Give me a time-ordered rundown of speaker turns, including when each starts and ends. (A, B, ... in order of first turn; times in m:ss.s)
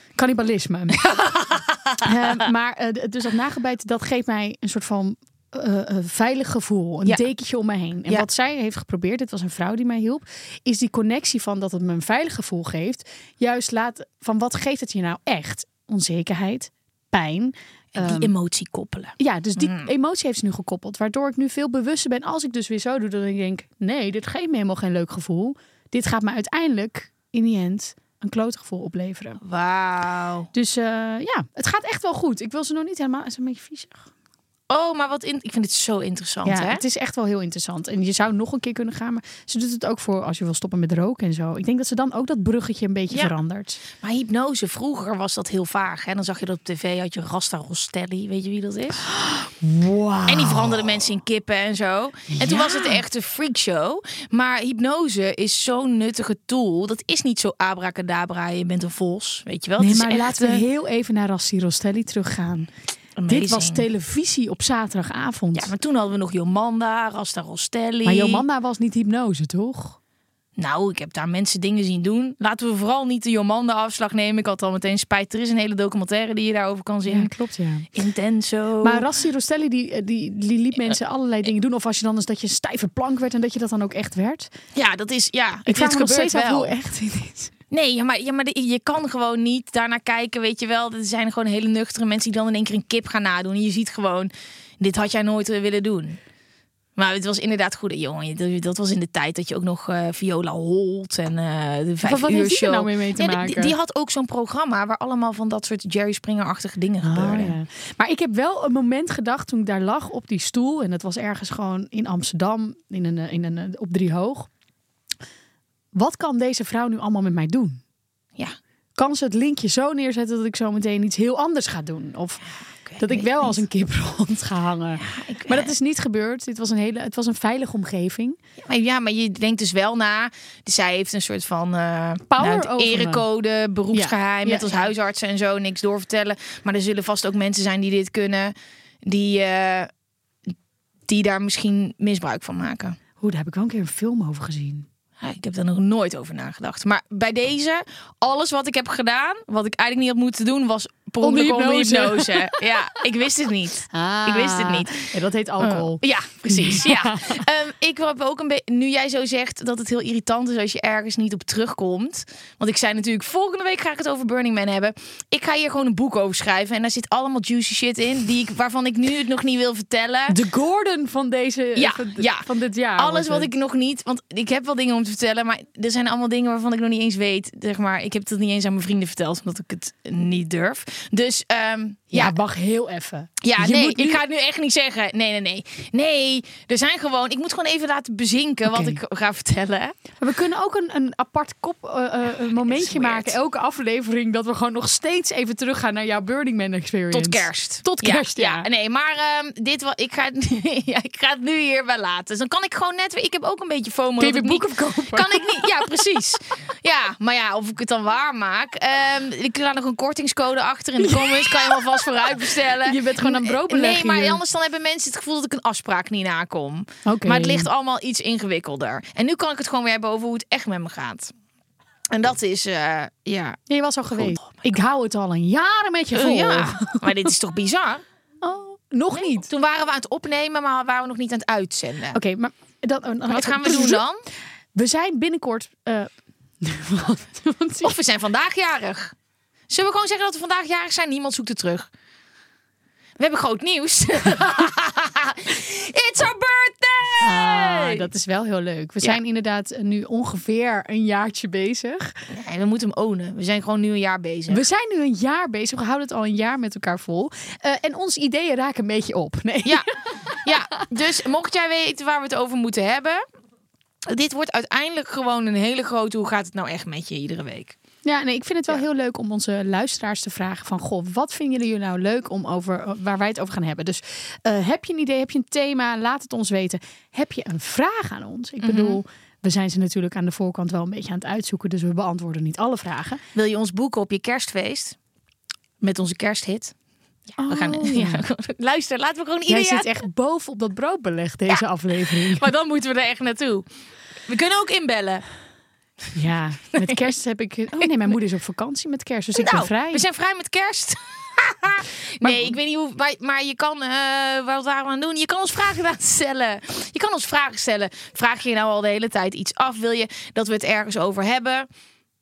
0:00.2-0:01.0 A
0:01.0-0:02.0 B
0:02.0-0:18.3 A
0:18.0-0:19.9 B
0:19.2-0:29.4 A
0:29.4-0:30.5 B
0:30.5-0:34.1 A
0:34.7-0:36.8 B
0:36.4-0:43.8 A
0:44.0-0:49.0 B
0:49.1-0:50.8 A
0:50.3-1:00.6 B
0:52.3-0:53.0 A
0:59.8-1:02.7 A
1:03.2-1:03.8 B
1:03.3-1:05.7 A
1:05.5-1:08.4 B
1:08.0-1:10.0 A
1:10.6-1:17.3 B
1:17.1-1:17.9 A
1:18.0-1:19.1 B
1:18.8-1:24.5 A
1:24.8-1:26.7 B
1:25.7-1:27.5 A
1:27.7-1:36.2 B
1:37.0-1:47.6 B
1:42.0-1:43.7 A
1:47.0-1:54.5 A
1:56.0-1:57.8 A
1:59.0-2:08.4 A
2:02.8-2:03.6 B
2:05.0-2:05.7 B
2:08.6-2:18.5 B
2:12.3-2:13.2 A
2:13.9-2:14.8 A
2:19.0-2:19.9 B
2:21.1-2:23.0 B
2:23.2-2:24.9 A
2:25.2-2:35.1 B
2:31.2-2:32.6 A
2:33.9-2:37.4 A
2:35.6-2:50.4 B
2:50.3-2:53.5 A
2:51.8-3:02.3 B
3:02.1-3:04.2 A
3:03.4-3:09.9 B
3:08.7-3:09.0 A
3:10.2-3:18.7 A
3:12.6-3:13.4 B
3:17.1-3:41.3 B
3:24.2-3:25.8 A
3:31.0-3:34.4 A
3:37.0-3:37.7 A
3:42.1-3:43.6 B
3:43.7-3:47.0 A
3:44.2-3:44.8 B
3:46.1-3:48.0 B
3:48.4-3:49.5 A
3:49.2-3:52.2 B
3:52.1-3:54.0 A
3:53.3-3:54.2 B
3:54.8-3:56.1 A
3:56.6-3:58.0 A
3:57.8-3:59.1 B
3:59.7-4:01.9 B
4:03.2-4:08.0 B
4:07.2-4:12.2 A
4:12.3-4:14.6 B
4:14.5-4:19.8 A
4:19.6-4:23.2 B
4:24.1-4:27.8 B
4:28.0-4:43.2 A
4:38.6-4:39.0 B
4:43.4-4:45.0 B
4:45.8-4:46.7 B
4:47.4-4:48.2 A
4:47.5-4:49.9 B
4:49.5-4:52.4 A
4:51.5-4:53.7 B
4:54.3-4:55.2 B
4:56.2-5:00.0 A
4:59.4-5:11.7 B
5:02.2-5:02.5 A